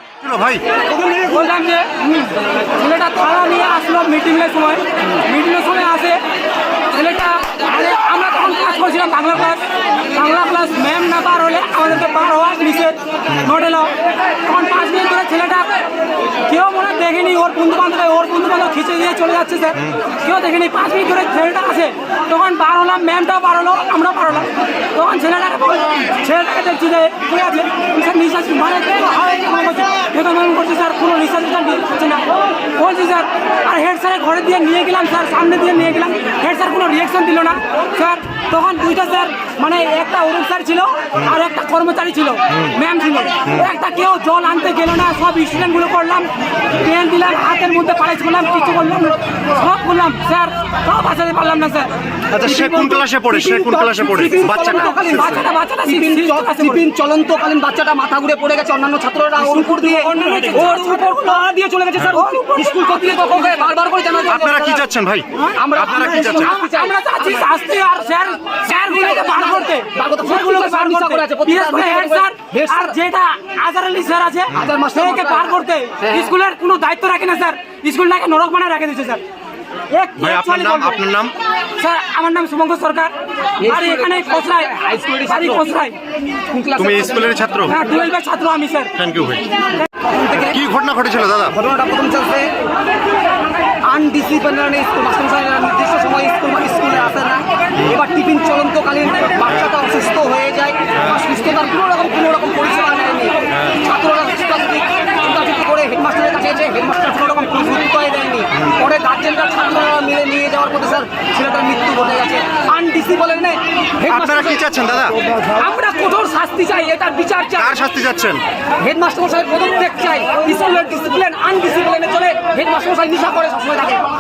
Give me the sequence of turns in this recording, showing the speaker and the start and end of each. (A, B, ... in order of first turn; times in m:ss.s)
0:00.2-0:00.6 A
0:01.0-0:06.2 B
0:06.9-0:13.9 B
0:14.4-0:15.7 B
0:16.4-0:51.9 B
0:52.3-0:54.9 A
0:52.4-1:04.8 C
0:54.8-0:56.8 B
0:59.4-1:01.4 B
1:02.1-1:03.7 B
1:04.3-1:06.5 A
1:05.6-1:07.5 C
1:06.2-1:19.2 B
1:08.7-1:13.0 C
1:14.5-1:16.3 C
1:19.9-1:21.0 B
1:20.2-1:21.3 A
1:21.8-1:26.0 B
1:23.6-1:25.6 C
1:26.5-1:27.9 C
1:26.8-1:27.7 A
1:27.7-1:28.9 B
1:29.0-1:29.5 A
1:30.0-1:30.6 C
1:30.5-1:31.6 A
1:31.5-1:32.5 C
1:33.8-1:54.7 C
1:54.1-1:55.1 A
1:55.5-1:57.8 C
1:57.6-1:58.4 A
1:58.8-2:04.0 C